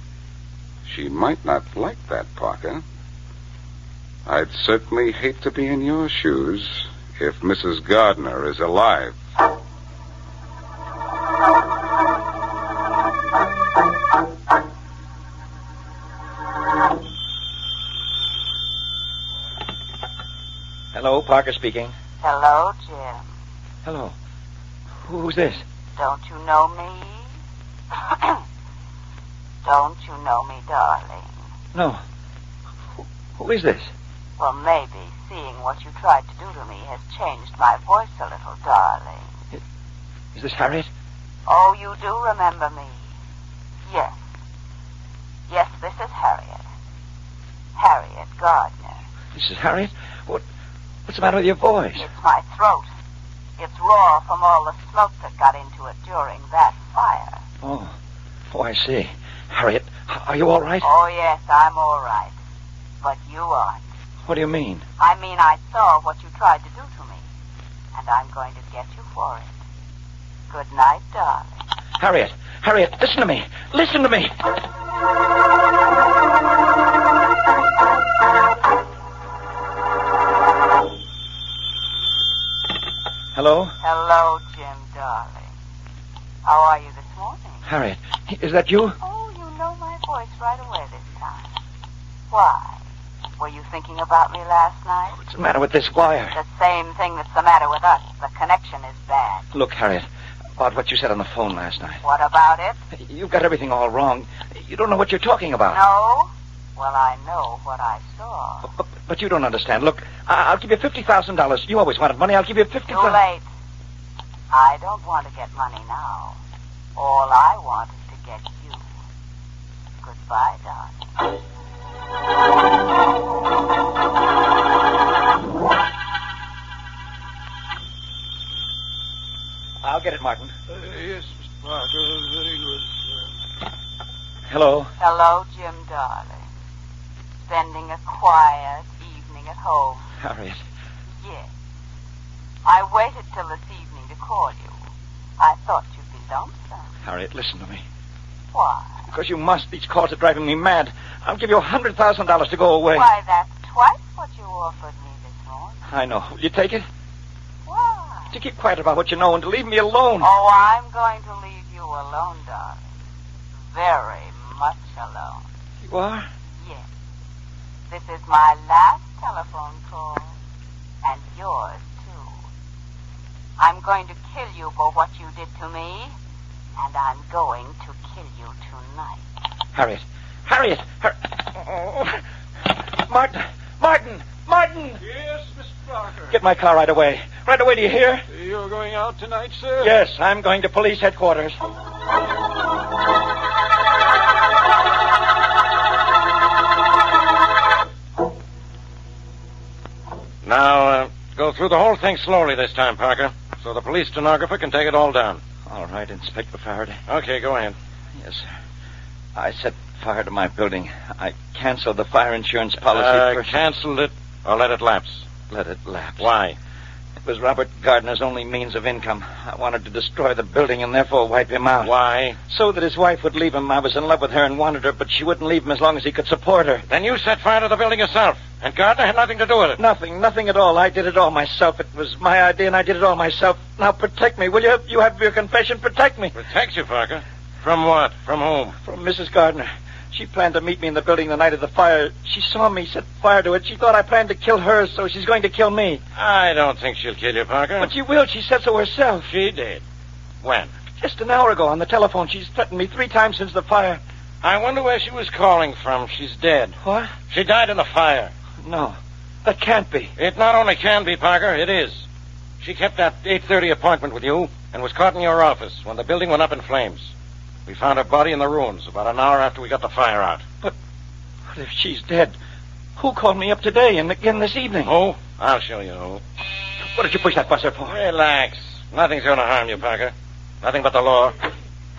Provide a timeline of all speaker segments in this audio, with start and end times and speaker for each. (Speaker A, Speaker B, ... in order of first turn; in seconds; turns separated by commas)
Speaker A: 0.8-2.8, Speaker A: 4.3-9.2, Speaker B: 20.9-21.9, Speaker C: 22.2-23.2, Speaker B: 23.9-24.1, Speaker B: 25.1-25.6, Speaker C: 26.0-27.2, Speaker C: 28.0-28.4, Speaker C: 29.6-31.3, Speaker B: 31.7-32.0, Speaker B: 33.4-33.9, Speaker C: 34.4-39.3, Speaker B: 40.4-40.9, Speaker C: 41.5-43.0, Speaker C: 43.9-44.1, Speaker C: 45.5-46.6, Speaker C: 47.8-49.0, Speaker B: 49.3-50.4, Speaker B: 51.1-52.1, Speaker C: 52.0-52.9, Speaker C: 53.6-57.4, Speaker B: 57.6-57.9, Speaker B: 58.5-60.9, Speaker C: 60.8-62.4, Speaker C: 63.0-63.8, Speaker B: 64.3-64.8, Speaker C: 65.0-67.2, Speaker C: 67.9-69.5, Speaker C: 70.5-71.5, Speaker B: 72.0-74.3, Speaker B: 83.3-83.8, Speaker C: 83.8-85.5, Speaker C: 86.4-87.6, Speaker B: 87.7-89.0, Speaker C: 89.0-91.5, Speaker C: 92.3-92.8, Speaker C: 93.4-95.2, Speaker B: 95.2-96.4, Speaker C: 96.3-99.4, Speaker B: 99.5-100.1, Speaker B: 100.6-102.0, Speaker C: 102.0-102.8, Speaker B: 102.9-105.8, Speaker C: 105.7-108.7, Speaker B: 108.7-113.2, Speaker C: 112.9-113.4, Speaker C: 114.5-116.4, Speaker C: 117.0-118.9, Speaker C: 120.0-121.0, Speaker B: 129.8-130.5, Speaker D: 130.7-133.2, Speaker B: 134.5-134.9, Speaker C: 135.0-136.4, Speaker C: 137.5-140.0, Speaker B: 140.2-140.6, Speaker C: 142.6-144.8, Speaker C: 145.4-146.9, Speaker B: 147.1-147.8, Speaker C: 148.5-149.0, Speaker B: 149.1-153.1, Speaker C: 153.0-155.8, Speaker B: 155.9-156.9, Speaker C: 157.7-158.3, Speaker B: 158.3-160.3, Speaker C: 160.2-162.8, Speaker C: 163.7-165.4, Speaker B: 165.8-166.3, Speaker C: 167.9-170.3, Speaker C: 171.0-172.4, Speaker C: 173.6-176.1, Speaker C: 176.8-179.2, Speaker B: 179.7-185.0, Speaker D: 185.0-186.3, Speaker B: 186.3-188.2, Speaker D: 188.3-189.9, Speaker B: 189.8-191.6, Speaker E: 200.4-205.4, Speaker B: 205.7-207.0, Speaker E: 207.1-207.8, Speaker B: 208.1-208.5, Speaker B: 209.3-213.7, Speaker E: 212.9-215.2, Speaker B: 215.5-216.3, Speaker E: 216.2-216.6, Speaker B: 217.2-221.9, Speaker E: 221.8-222.4, Speaker B: 222.5-226.8, Speaker E: 226.9-229.8, Speaker B: 229.8-236.3, Speaker E: 236.3-238.8, Speaker B: 238.8-246.0, Speaker E: 246.2-247.9, Speaker B: 247.8-249.3, Speaker E: 249.3-249.8, Speaker E: 250.4-250.7, Speaker B: 251.0-254.0, Speaker E: 254.4-256.8, Speaker B: 256.8-257.1, Speaker E: 257.3-258.3, Speaker B: 258.6-260.1, Speaker E: 260.2-262.0, Speaker E: 262.6-267.1, Speaker E: 267.6-270.4, Speaker B: 271.5-272.4, Speaker B: 273.0-274.9, Speaker E: 274.9-276.2, Speaker B: 276.9-278.0, Speaker E: 277.9-281.4